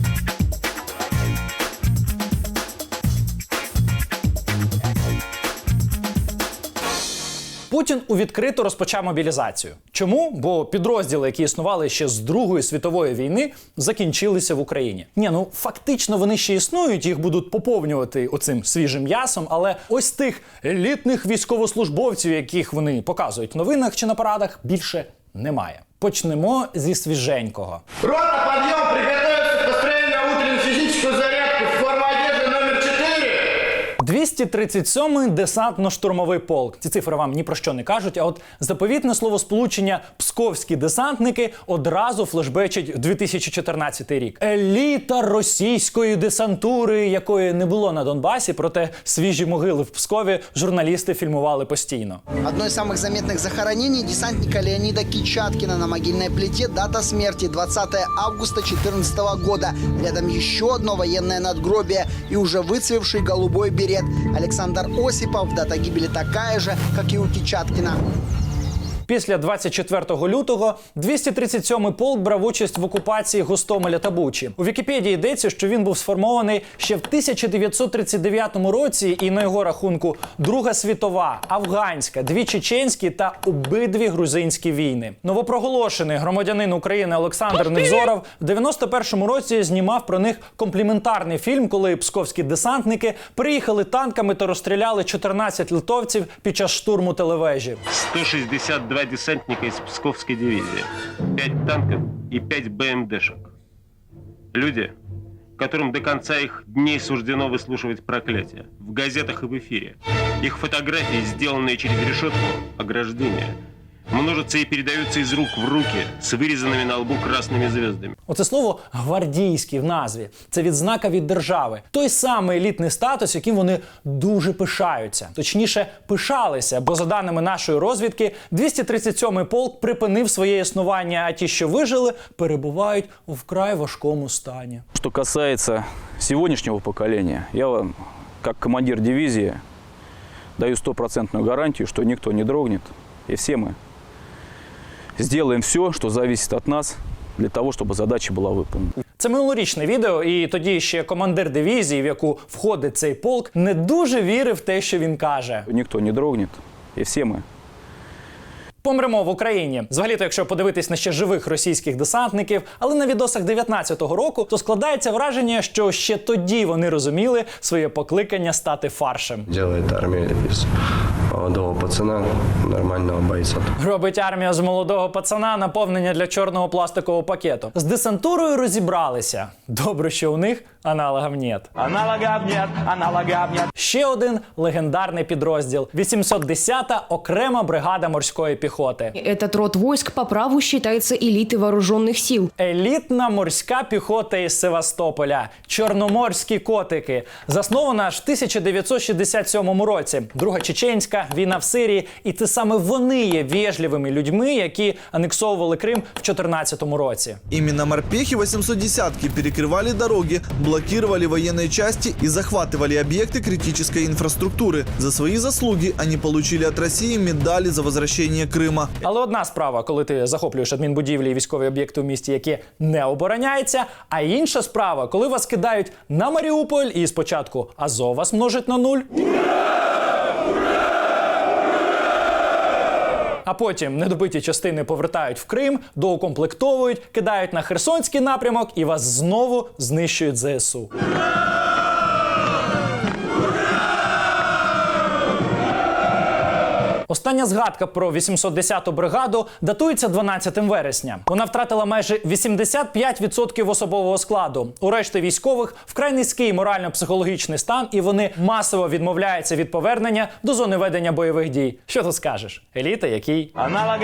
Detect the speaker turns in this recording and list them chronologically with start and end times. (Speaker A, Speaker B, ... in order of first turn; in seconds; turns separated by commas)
Speaker A: 7.7-27.8, Speaker B: 28.0-33.4, Speaker A: 34.0-52.2, Speaker C: 52.4-68.0, Speaker A: 69.1-97.8, Speaker D: 97.9-103.5, Speaker D: 104.5-104.9, Speaker D: 105.6-113.5, Speaker D: 114.1-118.1, Speaker A: 118.3-134.8, Speaker E: 134.9-139.6, Speaker E: 140.6-143.8, Speaker E: 145.2-148.9, Speaker A: 149.2-155.7, Speaker E: 155.7-157.4, Speaker A: 158.8-169.4, Speaker F: 169.5-170.7, Speaker F: 171.3-173.7, Speaker A: 173.8-181.7, Speaker A: 183.7-189.1, Speaker G: 189.2-192.5, Speaker A: 192.6-207.4, Speaker H: 207.5-218.9, Speaker A: 219.0-229.1, Speaker A: 233.4-240.9, Speaker A: 247.1-263.5